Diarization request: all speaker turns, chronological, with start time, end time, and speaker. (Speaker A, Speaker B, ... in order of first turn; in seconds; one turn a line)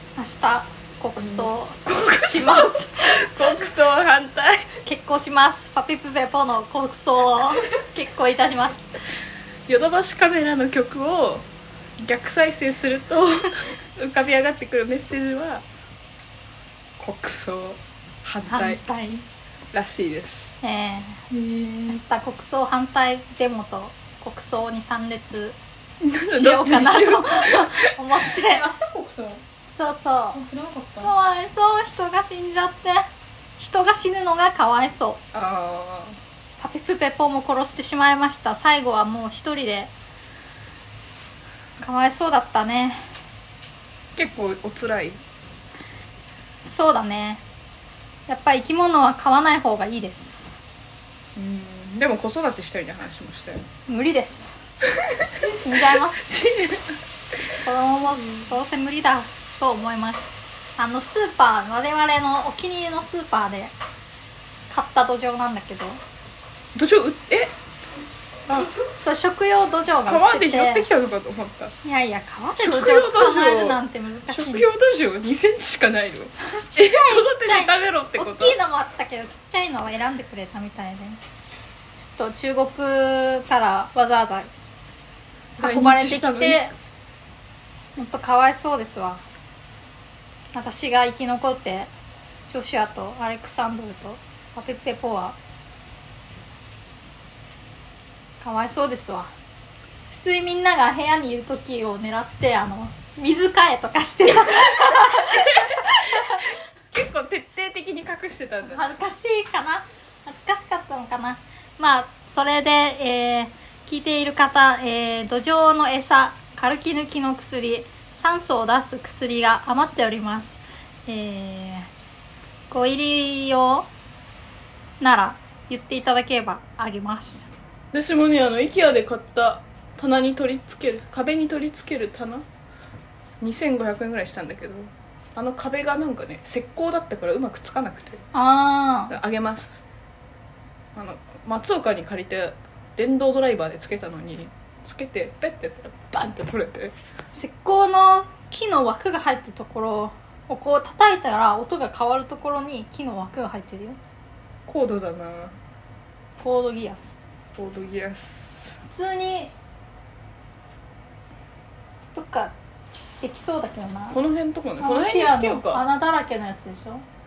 Speaker A: 0.1-3.0
Speaker B: 1.2-4.7
Speaker A: 4.8-8.8
Speaker B: 9.7-11.4
Speaker B: 12.0-15.6
Speaker B: 17.0-18.8
Speaker C: 18.6-19.2
Speaker B: 19.7-20.5
Speaker A: 20.6-21.2
Speaker C: 21.3-22.0
Speaker A: 21.9-25.6
Speaker B: 26.0-28.0
Speaker A: 26.3-28.7
Speaker C: 28.5-29.4
Speaker A: 29.6-30.4
Speaker C: 30.3-31.1
Speaker A: 31.0-33.0
Speaker A: 33.6-35.2
Speaker B: 35.3-36.2
Speaker A: 36.6-39.9
Speaker A: 41.8-43.0
Speaker B: 44.1-45.2
Speaker A: 46.6-47.4
Speaker A: 48.3-50.6
Speaker B: 51.4-53.7
Speaker A: 53.9-54.5
Speaker A: 55.4-56.3
Speaker B: 56.2-56.9
Speaker A: 57.6-63.7
Speaker A: 64.7-66.0
Speaker B: 66.7-67.5
Speaker A: 68.9-70.9
Speaker B: 69.9-71.7
Speaker A: 71.8-74.7
Speaker B: 72.6-78.5
Speaker A: 76.4-81.2
Speaker A: 82.0-84.5
Speaker B: 85.6-86.6
Speaker A: 85.6-86.7
Speaker A: 88.0-89.2
Speaker A: 90.5-91.9
Speaker A: 92.5-95.4
Speaker A: 98.4-99.3
Speaker A: 100.2-106.2
Speaker B: 104.8-108.8
Speaker A: 108.6-121.9
Speaker A: 122.7-123.9
Speaker A: 125.0-127.5
Speaker B: 127.9-132.4
Speaker B: 133.4-138.2
Speaker A: 138.3-139.1
Speaker B: 139.1-139.7
Speaker B: 140.9-146.9
Speaker A: 147.3-154.0
Speaker B: 154.7-155.6
Speaker A: 156.4-157.1
Speaker B: 157.6-158.7
Speaker A: 158.9-159.5
Speaker A: 162.1-162.5
Speaker A: 163.2-164.2
Speaker B: 164.1-165.8
Speaker A: 164.8-167.0